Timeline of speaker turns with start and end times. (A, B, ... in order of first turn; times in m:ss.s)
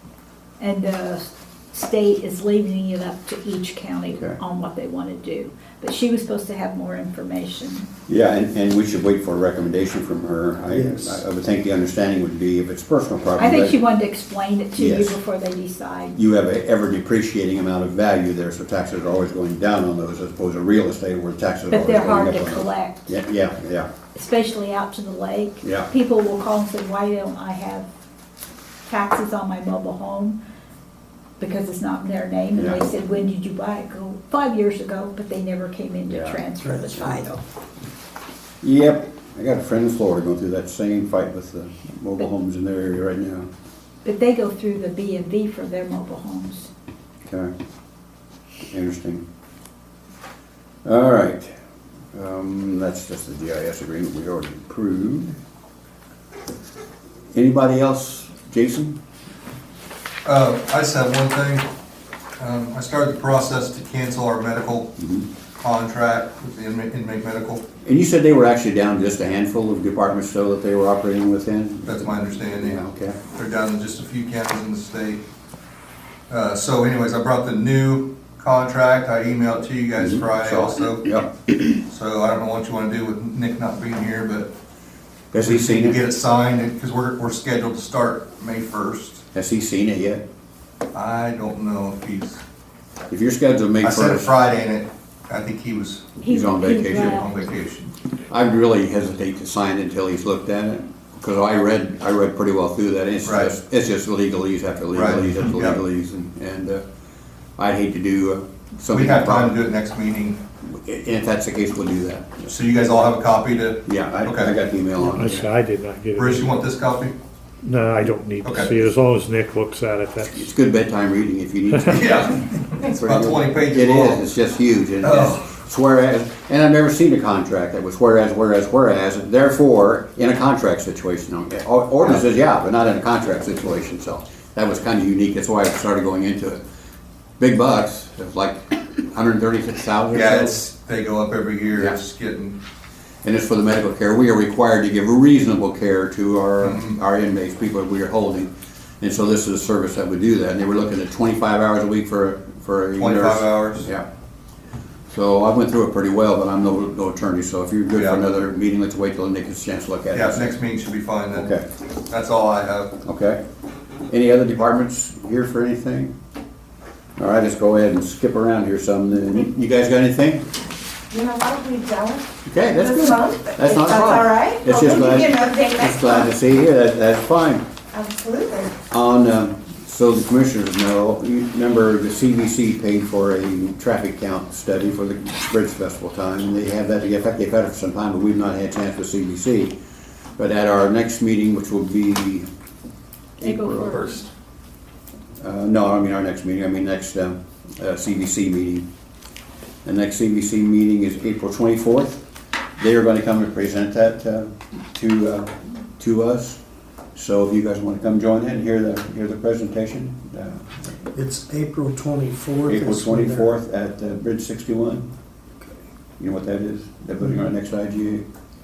0:00.6-0:07.9 A
0:08.1-0:13.8 B
0:10.7-0:11.2 C
0:13.4-0:16.2 A
0:14.8-0:15.2 B
0:16.2-0:23.9 B
0:21.7-0:23.1 A
0:24.2-0:27.9 A
0:25.6-0:25.9 B
0:28.9-0:30.4 A
0:31.4-0:37.4 A
0:32.6-0:32.8 B
0:36.1-0:36.4 B
0:36.6-0:37.1 C
0:38.6-0:43.5 B
0:44.0-0:46.7 A
0:48.7-0:49.2 B
0:50.8-0:51.5 B
0:52.1-0:55.4 B
0:57.3-0:59.0 B
1:00.2-1:01.7 D
1:02.4-1:04.9 D
1:05.0-1:05.3 B
1:05.6-1:07.6 D
1:07.8-1:13.2 B
1:11.8-1:12.8 D
1:13.3-1:15.2 D
1:16.3-1:21.1 D
1:20.0-1:21.5 B
1:21.9-1:24.5 D
1:25.3-1:26.0 B
1:25.4-1:29.2 D
1:29.3-1:30.2 B
1:30.9-1:32.4 D
1:33.1-1:34.3 B
1:33.8-1:36.1 D
1:36.2-1:37.4 A
1:36.2-1:37.3 B
1:36.8-1:37.9 D
1:38.3-1:46.8 B
1:43.2-1:43.5 D
1:44.9-1:45.8 D
1:47.6-1:49.6 B
1:48.9-1:50.4 D
1:50.6-1:52.5 B
1:52.5-1:54.5 D
1:53.8-1:55.5 B
1:55.0-1:56.6 E
1:56.2-1:57.2 D
1:57.6-2:00.5 E
1:58.4-1:58.8 D
2:00.3-2:02.2 B
2:01.7-2:02.0 E
2:01.9-2:04.2 D
2:03.0-2:16.6 B
2:05.0-2:05.4 D
2:17.4-2:20.6 B
2:20.1-2:22.6 D
2:23.2-2:34.1 B
2:26.6-2:27.0 D
2:33.0-2:33.9 D
2:35.1-2:40.5 B
2:38.0-2:38.2 D
2:40.1-2:41.6 D
2:41.3-2:41.7 B
2:42.1-2:43.0 D
2:43.0-2:43.4 B
2:44.1-2:46.1 B
2:47.2-2:50.5 B
2:51.1-2:56.1 F
2:52.4-2:57.7 B
2:57.9-2:58.7 F
2:58.9-3:09.8 B
3:10.4-3:12.5 B
3:13.4-3:14.2 B
3:13.4-3:14.3 A
3:15.4-3:18.9 B
3:19.8-3:22.2 B
3:22.8-3:26.6 B
3:27.2-3:31.0 B
3:31.1-3:33.5 C
3:32.7-3:35.1 B
3:36.2-3:38.3 B